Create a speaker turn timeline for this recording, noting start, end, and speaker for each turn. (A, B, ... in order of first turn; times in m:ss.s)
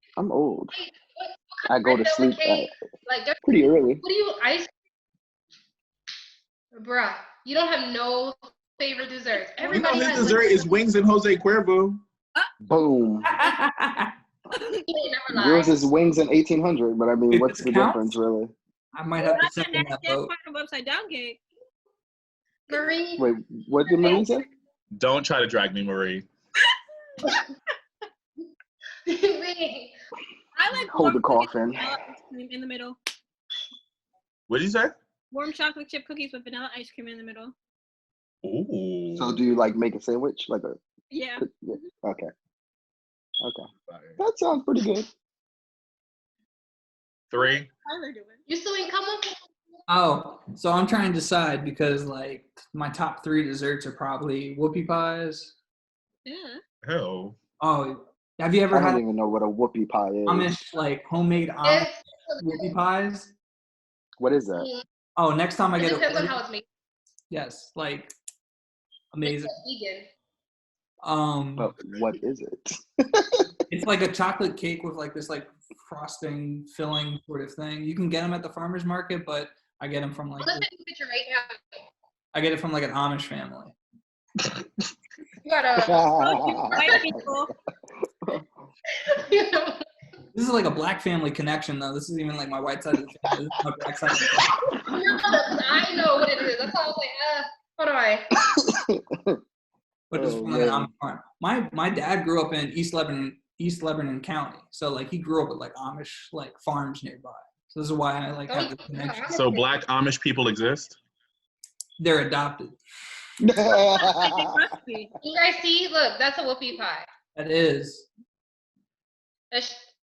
0:00.2-0:00.7 A
0:00.7-0:03.4 B
0:01.7-0:02.7 A
0:03.4-0:04.0 A
0:04.0-0:04.7 B
0:06.8-0:10.7 B
0:09.3-0:10.7 C
0:09.7-0:12.0 D
0:12.7-0:13.3 A
0:13.2-0:14.1 E
0:14.8-0:15.9 B
0:15.3-0:18.5 A
0:17.3-0:18.2 E
0:18.9-0:20.3 E
0:19.2-0:21.4 C
0:22.7-0:23.3 B
0:22.7-0:23.0 C
0:23.2-0:24.5 A
0:23.9-0:24.3 B
0:24.9-0:26.3 D
0:29.1-0:29.9 B
0:30.6-0:33.0 C
0:30.8-0:31.9 A
0:34.5-0:34.9 D
0:35.3-0:37.5 C
0:38.4-0:39.4 D
0:39.2-0:40.8 A
0:41.1-0:41.9 C
0:41.4-0:42.3 A
0:43.4-0:43.7 A
0:43.9-0:44.2 D
0:44.2-0:45.1 A
0:47.3-0:47.7 D
0:47.3-0:48.4 C
0:48.5-0:49.4 B
0:49.9-0:55.5 E
0:56.2-0:56.6 C
0:56.8-0:57.4 D
0:57.6-0:59.0 E
0:58.7-1:00.6 A
1:00.3-1:03.3 E
1:01.6-1:02.7 B
1:04.2-1:04.7 A
1:04.6-1:04.8 B
1:05.2-1:06.4 E
1:05.8-1:06.6 B
1:07.3-1:08.1 E
1:09.1-1:09.6 E
1:09.2-1:10.1 B
1:11.0-1:11.7 E
1:11.6-1:13.5 A
1:13.7-1:20.7 E
1:20.4-1:21.6 B
1:22.3-1:23.8 E
1:25.4-1:27.0 B
1:25.8-1:26.8 A
1:26.2-1:27.5 C
1:29.0-1:29.8 B
1:30.3-1:34.5 E
1:34.8-1:38.3 B
1:38.5-1:39.4 A
1:40.1-1:49.3 E
1:40.2-1:40.9 A
1:48.5-1:49.8 B
1:49.3-1:51.0 D
1:52.0-1:52.8 E
1:53.4-1:54.4 A
1:53.7-1:55.1 C
1:55.2-1:57.1 B
1:57.4-1:58.1 E
1:59.5-1:59.9 B